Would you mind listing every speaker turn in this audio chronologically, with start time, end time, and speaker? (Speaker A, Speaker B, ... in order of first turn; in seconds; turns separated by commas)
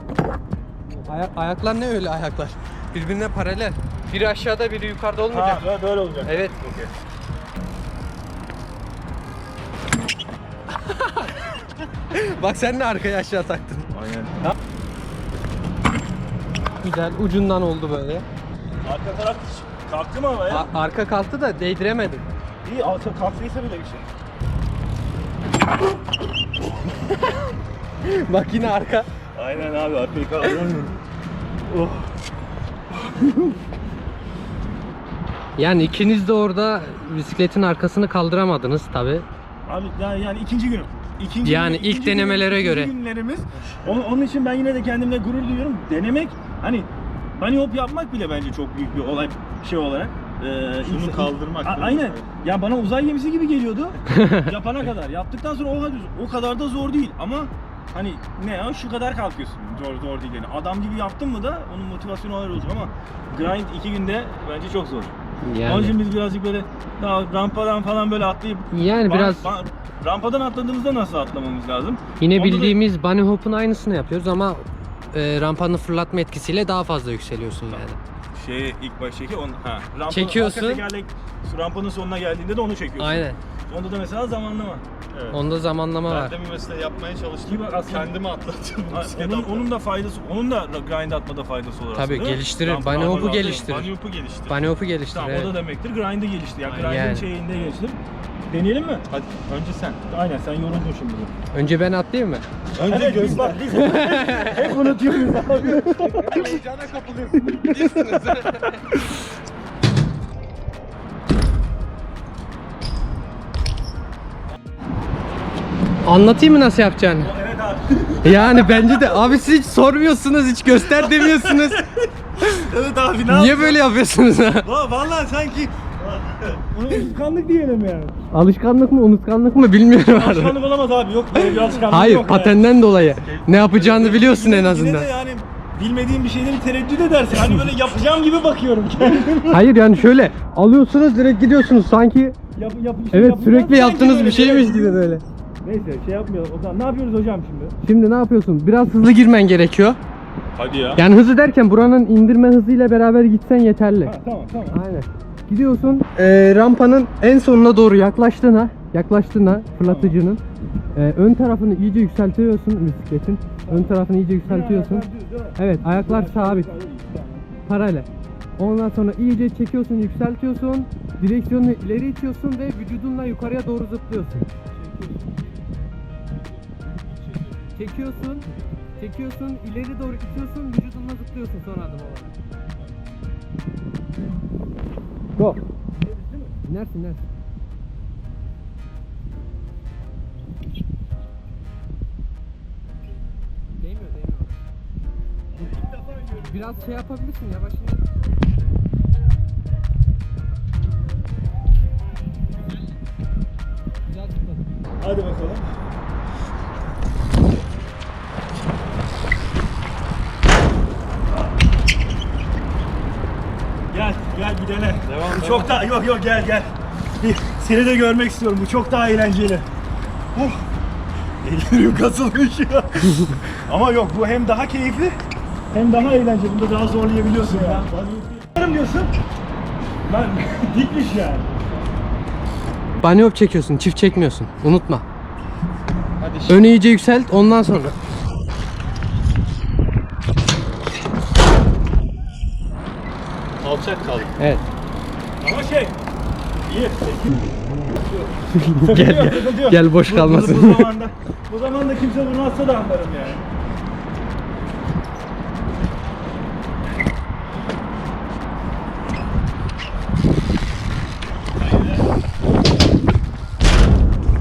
Speaker A: 1.0-5.7, Speaker B: 5.3-6.9, Speaker A: 6.2-6.5, Speaker A: 10.8-11.5, Speaker A: 12.1-13.9, Speaker B: 13.9-14.4, Speaker A: 16.8-18.3, Speaker B: 18.8-20.7, Speaker A: 20.5-22.2, Speaker B: 22.6-24.1, Speaker A: 27.1-27.5, Speaker A: 28.0-29.1, Speaker B: 29.4-30.9, Speaker B: 31.7-32.1, Speaker B: 33.0-33.5, Speaker A: 35.6-39.3, Speaker B: 39.7-65.1, Speaker A: 41.4-42.9, Speaker C: 50.8-52.3, Speaker A: 54.1-54.5, Speaker A: 65.4-66.0, Speaker B: 65.7-72.8, Speaker A: 68.7-69.5, Speaker A: 72.2-78.0, Speaker B: 78.3-84.8, Speaker A: 80.1-80.8, Speaker A: 83.0-83.4, Speaker C: 85.1-85.4, Speaker A: 85.3-86.4, Speaker C: 86.0-89.7, Speaker B: 87.4-88.2, Speaker B: 88.9-93.8, Speaker A: 92.0-93.9, Speaker C: 92.8-94.6, Speaker A: 94.5-95.5, Speaker B: 95.1-98.0, Speaker A: 96.7-97.3, Speaker B: 98.5-99.0, Speaker C: 99.1-100.0, Speaker B: 100.1-101.3, Speaker A: 101.5-102.5, Speaker C: 102.8-103.8, Speaker B: 102.8-106.5, Speaker A: 103.7-104.8, Speaker C: 105.7-108.5, Speaker A: 105.8-106.6, Speaker A: 107.4-108.8, Speaker A: 116.0-117.3, Speaker B: 117.2-119.4, Speaker A: 118.2-121.8, Speaker B: 120.8-123.8, Speaker A: 123.3-124.7, Speaker B: 124.6-125.9, Speaker C: 126.0-126.6, Speaker B: 126.7-128.2, Speaker A: 128.3-130.6, Speaker B: 130.0-132.6, Speaker A: 131.4-135.1, Speaker C: 133.2-133.7, Speaker B: 133.7-139.6, Speaker A: 139.4-142.4, Speaker B: 142.6-147.8, Speaker A: 143.1-145.2, Speaker A: 147.8-150.0, Speaker B: 150.6-151.0, Speaker A: 151.0-154.1, Speaker B: 154.0-154.8, Speaker A: 154.7-160.4, Speaker B: 159.8-160.2, Speaker A: 160.9-166.7, Speaker B: 163.7-167.5, Speaker A: 167.7-174.5, Speaker B: 174.7-175.4, Speaker B: 176.5-178.0, Speaker A: 177.8-182.4, Speaker B: 186.0-186.6, Speaker A: 186.7-187.2, Speaker A: 193.8-194.6, Speaker B: 195.5-197.1, Speaker A: 196.4-198.1, Speaker A: 204.2-204.6, Speaker B: 205.0-205.7, Speaker B: 213.9-219.7, Speaker C: 215.1-215.8, Speaker B: 221.4-225.2, Speaker B: 225.7-229.1, Speaker B: 230.1-231.5, Speaker A: 233.0-235.1, Speaker C: 236.2-236.7, Speaker A: 236.5-238.0, Speaker C: 243.6-244.3, Speaker A: 244.4-244.6, Speaker B: 245.4-246.0, Speaker B: 246.6-247.5, Speaker B: 248.1-253.4, Speaker A: 248.5-250.9, Speaker B: 261.6-262.1